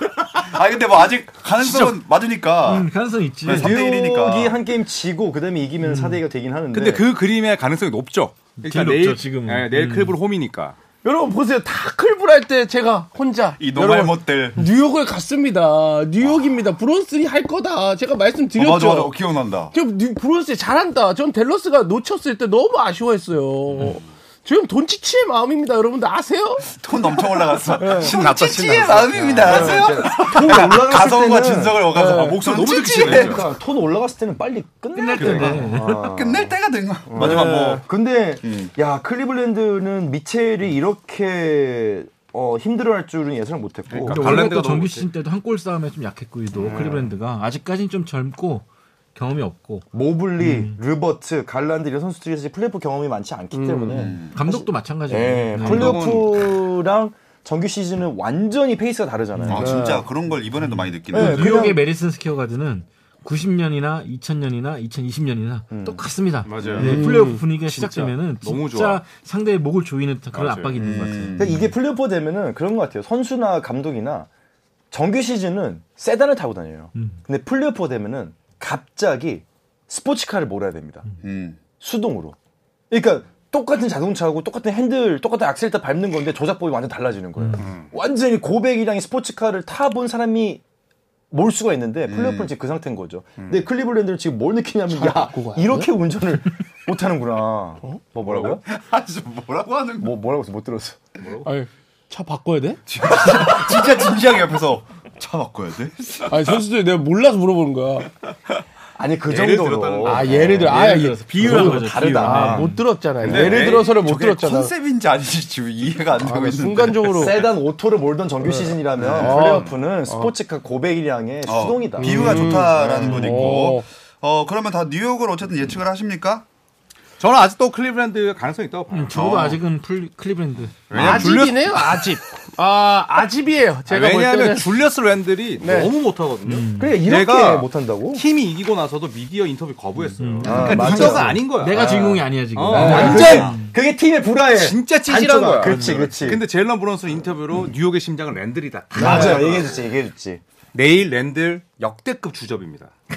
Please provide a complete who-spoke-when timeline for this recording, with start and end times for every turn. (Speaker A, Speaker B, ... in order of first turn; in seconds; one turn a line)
Speaker A: 0.4-2.9
Speaker B: 1.6-1.9
Speaker C: 2.6-3.8
Speaker A: 3.4-4.5
Speaker D: 3.5-7.1
Speaker C: 5.8-6.2
Speaker B: 6.7-10.8
Speaker C: 8.6-10.2
Speaker E: 11.0-19.2
Speaker A: 13.6-14.6
Speaker A: 18.5-19.7
Speaker E: 19.7-28.1
Speaker A: 26.6-33.4
Speaker B: 28.1-29.6
Speaker D: 29.4-31.9
Speaker E: 29.5-29.9
Speaker E: 31.9-32.6
Speaker B: 32.4-33.4
Speaker D: 32.9-36.5
Speaker C: 34.9-36.1
Speaker B: 35.1-35.5
Speaker A: 36.1-37.8
Speaker D: 37.1-44.5
Speaker E: 37.2-37.8
Speaker A: 38.4-38.7
Speaker B: 43.9-45.1
Speaker C: 44.1-49.9
Speaker D: 46.6-47.1
Speaker A: 46.6-46.9
Speaker D: 49.9-60.0
Speaker C: 50.4-50.8
Speaker E: 53.5-54.1
Speaker A: 53.9-54.3
Speaker C: 54.3-56.0
Speaker B: 55.6-56.6
Speaker A: 59.5-61.7
Speaker E: 59.5-60.0
Speaker C: 60.6-71.7
Speaker D: 61.1-61.8
Speaker D: 65.7-66.0
Speaker B: 66.4-69.0
Speaker E: 66.8-67.4
Speaker B: 70.3-70.8
Speaker A: 70.8-71.6
Speaker D: 71.4-74.3
Speaker D: 74.9-81.0
Speaker C: 76.9-77.2
Speaker A: 81.2-81.7
Speaker D: 81.8-82.3
Speaker D: 82.9-90.6
Speaker C: 87.4-87.6
Speaker B: 87.6-87.9
Speaker D: 91.3-98.6
Speaker A: 92.1-92.5
Speaker B: 93.4-93.6
Speaker E: 94.9-95.9
Speaker A: 98.2-100.1
Speaker D: 100.0-101.0
Speaker B: 101.2-101.5
Speaker E: 101.4-103.5
Speaker A: 102.9-106.6
Speaker E: 106.3-108.1
Speaker D: 109.0-112.7
Speaker B: 109.3-110.3
Speaker E: 110.0-114.7
Speaker C: 110.7-112.8
Speaker B: 113.2-113.9
Speaker A: 113.3-117.3
Speaker E: 116.1-117.5
Speaker D: 117.1-122.5
Speaker E: 118.4-120.3
Speaker B: 119.0-119.8
Speaker A: 121.5-126.4
Speaker E: 122.0-123.8
Speaker B: 127.2-129.6
Speaker C: 128.9-130.8
Speaker A: 130.9-131.6
Speaker B: 130.9-132.1
Speaker E: 130.9-134.7
Speaker B: 133.9-143.5
Speaker E: 135.6-135.9
Speaker C: 136.5-137.0
Speaker D: 136.8-138.2
Speaker C: 140.2-143.7
Speaker D: 140.4-146.4
Speaker E: 142.7-143.5
Speaker A: 142.9-143.5
Speaker B: 144.5-149.9
Speaker C: 145.6-146.0
Speaker D: 148.9-150.4
Speaker E: 149.0-149.3
Speaker C: 149.1-149.4
Speaker B: 150.7-152.9